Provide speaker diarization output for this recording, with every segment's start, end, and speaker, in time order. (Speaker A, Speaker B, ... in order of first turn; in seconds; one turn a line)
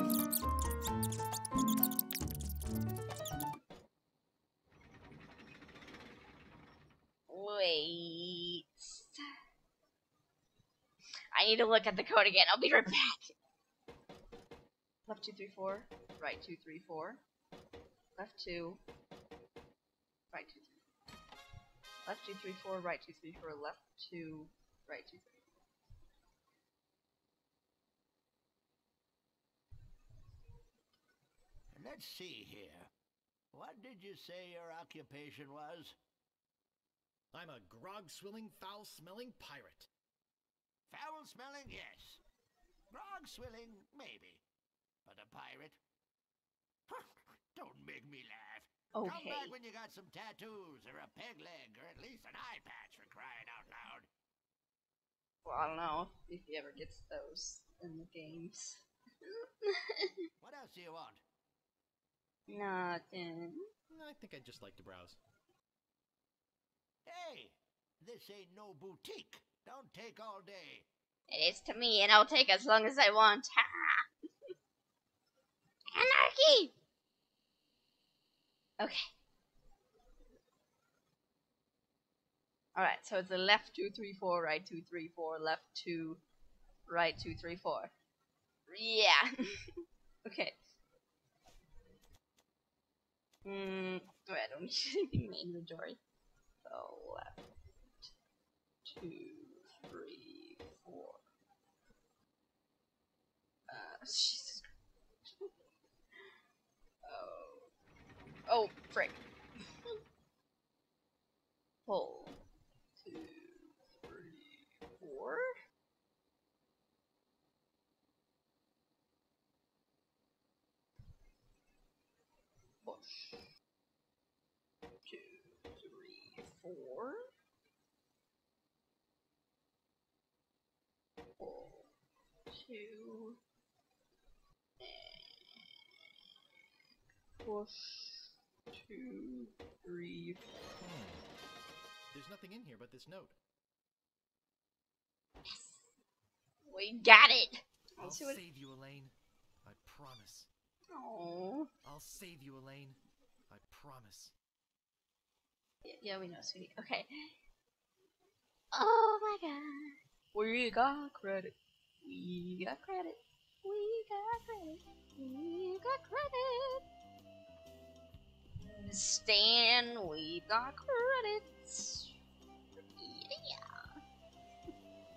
Speaker A: 7.3-9.2
Speaker A: 11.3-13.3
Speaker A: 15.1-17.2
Speaker A: 18.2-18.8
Speaker A: 20.3-20.8
Speaker A: 22.1-25.4
Speaker B: 31.7-32.9
Speaker B: 33.5-36.0
Speaker C: 37.3-39.9
Speaker B: 40.9-42.2
Speaker B: 42.9-44.4
Speaker B: 45.0-45.8
Speaker B: 46.9-54.1
Speaker A: 49.0-49.5
Speaker A: 55.5-60.1
Speaker B: 60.4-61.2
Speaker A: 62.5-63.6
Speaker C: 63.9-65.2
Speaker B: 67.1-70.9
Speaker A: 71.3-74.0
Speaker A: 75.9-76.7
Speaker A: 78.8-79.0
Speaker A: 82.8-86.2
Speaker A: 86.9-87.9
Speaker A: 88.7-90.5
Speaker A: 93.5-96.0
Speaker A: 96.6-97.4
Speaker A: 98.8-101.2
Speaker A: 103.7-104.7
Speaker A: 105.2-105.5
Speaker A: 107.0-107.7
Speaker A: 108.5-109.2
Speaker A: 111.9-112.4
Speaker A: 113.0-115.5
Speaker A: 122.8-123.5
Speaker A: 125.0-127.2
Speaker A: 131.4-131.9
Speaker A: 132.5-133.4
Speaker A: 134.8-135.7
Speaker A: 137.4-140.4
Speaker C: 140.8-141.3
Speaker C: 142.1-143.3
Speaker A: 145.5-145.8
Speaker A: 146.7-148.4
Speaker C: 148.0-150.5
Speaker A: 150.9-151.7
Speaker C: 151.8-154.3
Speaker A: 155.8-157.3
Speaker A: 158.7-166.8
Speaker A: 168.7-172.1
Speaker A: 173.0-173.7